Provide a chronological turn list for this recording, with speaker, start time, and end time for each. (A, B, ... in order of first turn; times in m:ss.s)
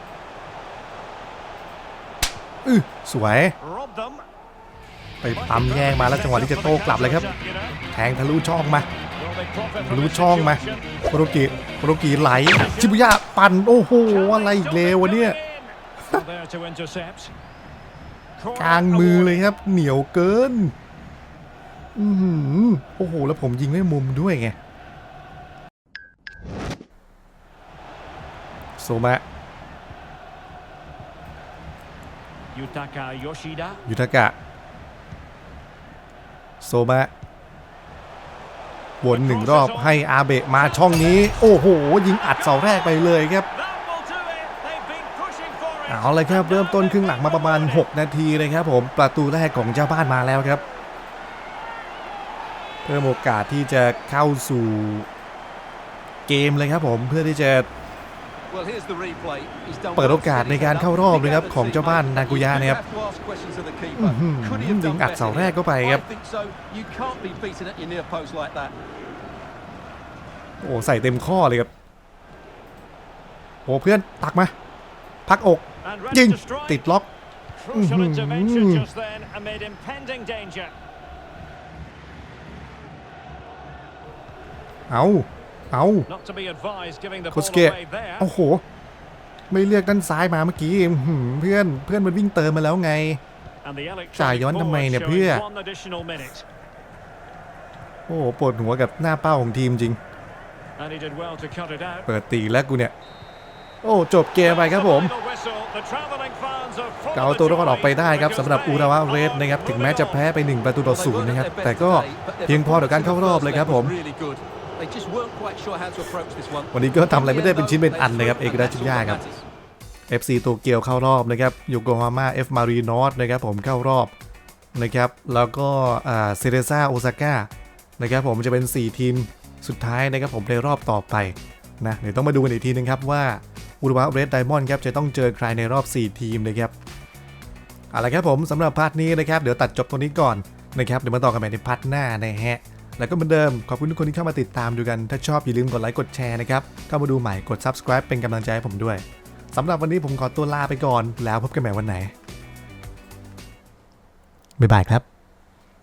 0:02.6-0:03.6 A
0:03.6-0:04.3 B
0:05.2-0:07.3 A
0:05.3-0:07.8 B
0:07.9-0:08.9 A
0:09.2-0:10.9 B
0:09.8-0:15.4 A
0:12.1-0:13.1 B
0:14.0-0:17.3 B
0:18.4-0:19.4 B
0:18.6-0:20.7 A
0:22.0-0:24.6 A
0:28.8-0:29.2 A
0:32.5-0:33.8 B
0:33.9-0:34.4 A
0:36.6-0:37.1 A
0:39.0-0:43.5 A
0:39.1-0:41.4 B
0:42.0-0:47.9 B
0:45.9-0:50.6 A
0:52.8-0:55.1 A
0:56.3-0:57.7 A
0:58.5-1:08.7 C
1:00.0-1:02.8 A
1:04.0-1:06.0 A
1:10.6-1:11.7 A
1:13.7-1:14.5 A
1:15.3-1:17.1 A
1:15.8-1:16.9 B
1:17.6-1:20.8 B
1:17.7-1:18.9 A
1:24.9-1:26.1 A
1:26.1-1:28.3 B
1:27.3-1:28.6 A
1:29.5-1:33.2 A
1:33.6-1:36.5 B
1:34.2-1:35.4 A
1:38.1-1:40.0 A
1:40.8-1:42.1 B
1:42.1-1:42.9 A
1:43.8-1:45.1 A
1:44.4-1:50.3 B
1:47.1-1:53.9 A
1:50.8-1:59.4 C
1:56.7-1:59.2 A
2:00.1-2:04.1 A
2:04.7-2:16.7 A
2:17.9-2:32.1 A
2:34.6-2:35.0 A